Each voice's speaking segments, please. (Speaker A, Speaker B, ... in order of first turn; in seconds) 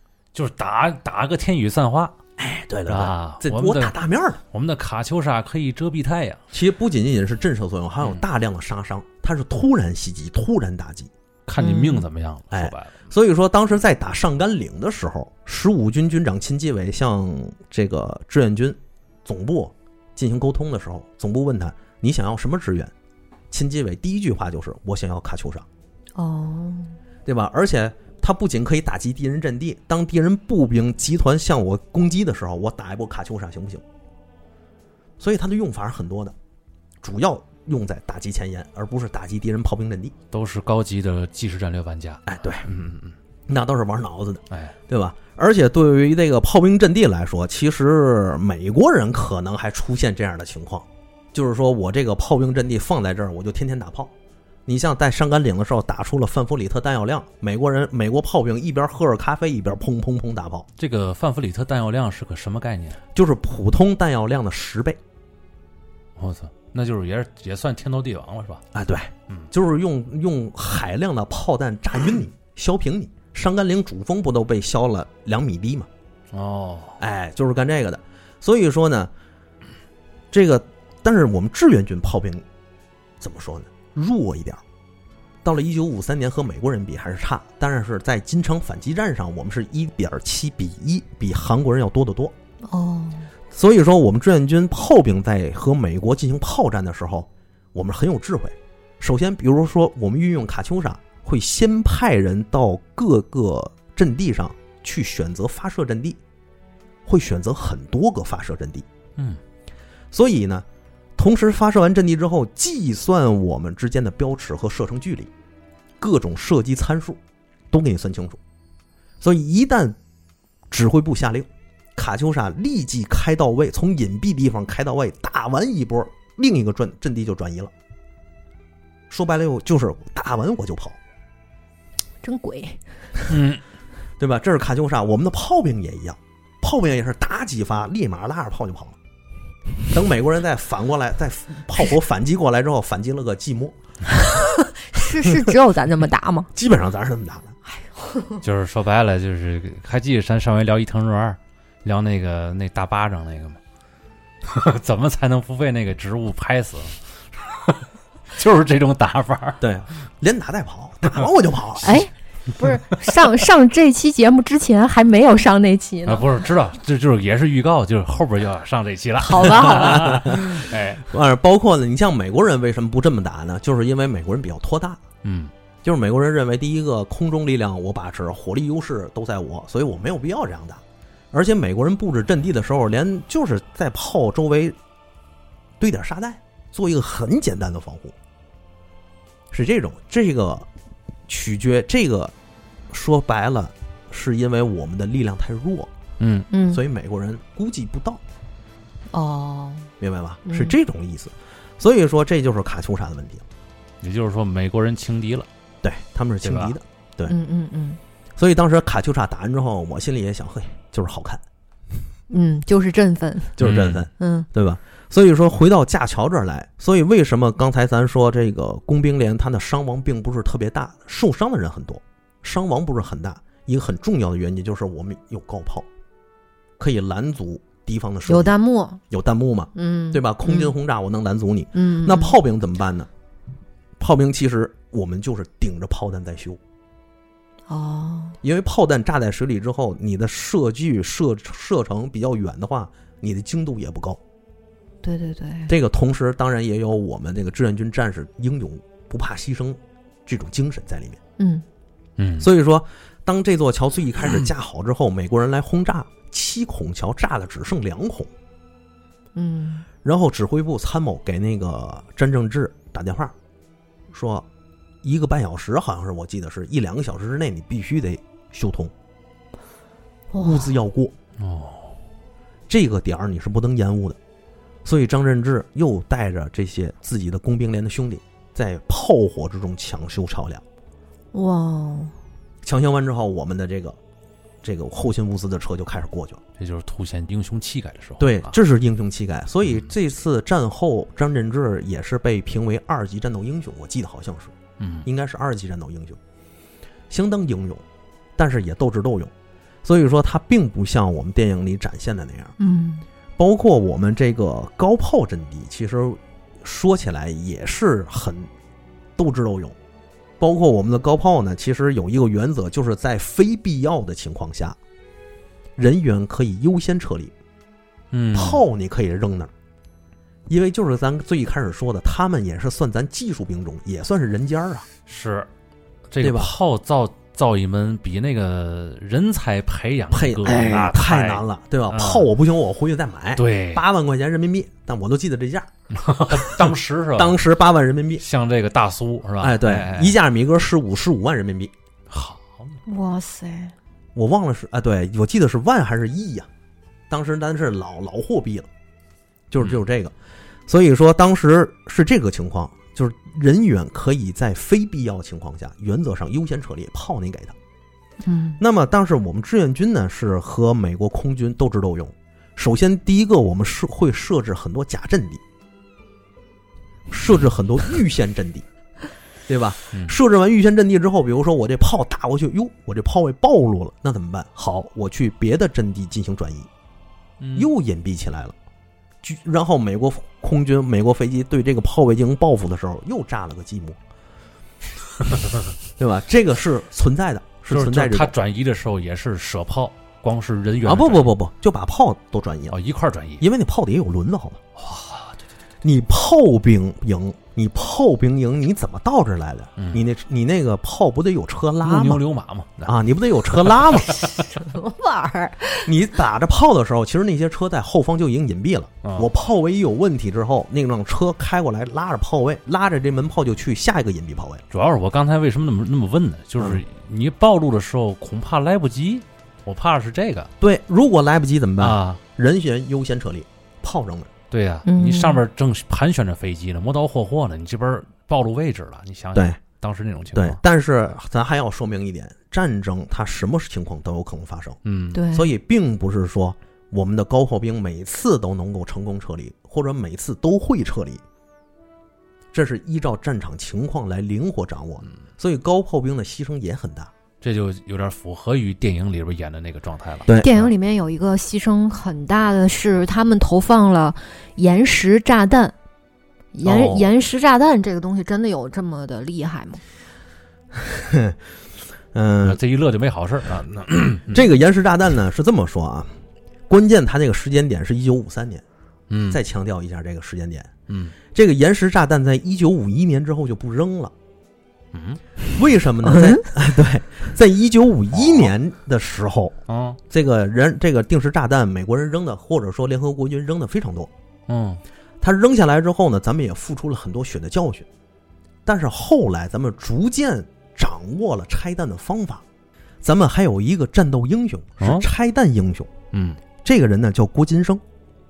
Speaker A: 0.3-2.2, 2.9-3.9, 4.5-6.4, 11.4-13.1, 40.3-43.1, 44.5-44.8, 60.8-63.0, 66.2-68.6, 76.3-77.0, 133.3-133.6, 148.4-153.6, 154.4-159.6, 166.1-171.0, 175.2-175.5, 196.2-196.5, 204.0-205.5, 206.4-206.7, 213.6-214.0, 252.2-252.5, 271.4-271.9, 286.6-288.5, 294.8-295.1, 318.1-318.6, 325.1-325.5, 326.1-332.3, 333.4-333.8, 336.0-337.4, 338.2-340.2, 342.1-342.8, 369.9-370.2, 377.4-377.7, 387.7-391.3, 392.7-393.4, 394.8-395.4, 399.8-400.0, 401.8-403.0, 403.5-404.4, 414.7-420.5, 421.8-422.2, 424.5-430.6, 434.8-435.2, 447.4-450.7, 462.4-464.5, 469.1-469.4, 470.9-471.1, 474.9-475.2, 479.7-480.0, 484.5-484.8, 494.8-495.1, 496.1-496.4
Speaker B: 2.4-4.4, 6.5-11.1, 12.5-22.9, 23.5-25.6, 27.2-33.8, 35.2-36.3, 37.0-40.1, 42.2-42.7, 43.5-54.1, 54.7-60.7, 63.1-65.0, 68.7-75.9, 77.0-79.1, 80.3-82.4, 83.2-84.6, 85.4-92.3, 93.5-106.2, 107.0-108.8, 110.1-110.6, 111.2-115.3, 116.0-117.2, 117.7-118.4, 119.2-120.0, 120.7-127.7, 129.1-131.0, 134.2-138.9, 139.9-143.8, 145.2-145.5, 146.5-147.5, 159.6-162.0, 169.6-175.0, 175.8-184.8, 185.8-188.1, 189.5-190.7, 191.3-192.3, 192.9-195.9, 196.7-198.2, 200.0-203.4, 205.8-207.3, 208.4-211.4, 213.6-225.9, 226.8-228.6, 229.1-233.1, 234.0-236.6, 238.4-244.2, 245.7-251.2, 252.4-258.3, 260.0-263.3, 264.1-264.4, 265.0-268.9, 270.4-271.1, 272.7-274.2, 274.8-280.6, 282.6-284.0, 284.6-286.4, 288.2-296.2, 297.1-297.8, 298.4-299.3, 299.8-302.5, 303.4-308.5, 309.2-309.8, 310.4-314.8, 315.8-317.3, 318.3-319.5, 320.5-324.9, 326.2-326.5, 330.1-335.7, 336.3-338.2, 339.4-341.7, 344.1-346.5, 347.1-348.7, 349.5-350.1, 350.7-357.5, 358.6-365.4, 367.1-368.6, 369.5-376.7, 377.5-378.5, 379.2-384.0, 386.0-388.3, 390.8-392.8, 393.4-394.6, 395.8-402.2, 402.8-404.2, 405.8-414.6, 420.6-424.3, 429.3-429.6, 430.3-434.8, 435.3-441.2, 442.5-447.1, 456.6-457.1, 460.7-461.4, 462.1-462.6, 464.3-466.1, 466.7-468.6, 469.3-470.7, 471.3-474.1, 475.5-479.6, 480.1-484.1, 485.2-487.9, 488.6-492.4, 493.0-495.9, 496.6-497.8
Speaker C: 11.6-12.0, 26.1-27.0, 92.7-93.3, 132.2-132.8, 144.2-146.5, 147.9-148.4, 161.8-166.3, 169.2-170.5, 196.5-196.8, 199.1-199.9, 200.4-200.8, 207.3-208.0, 212.3-213.6, 214.2-214.5, 228.2-229.0, 229.7-230.7, 231.7-232.4, 237.7-238.4, 245.0-245.7, 251.4-251.6, 259.3-259.9, 270.3-270.7, 281.3-282.1, 302.6-303.0, 342.9-343.7, 358.2-358.6, 404.4-405.9, 424.9-425.4, 435.1-435.5, 450.4-455.7, 456.5-459.8, 476.1-476.4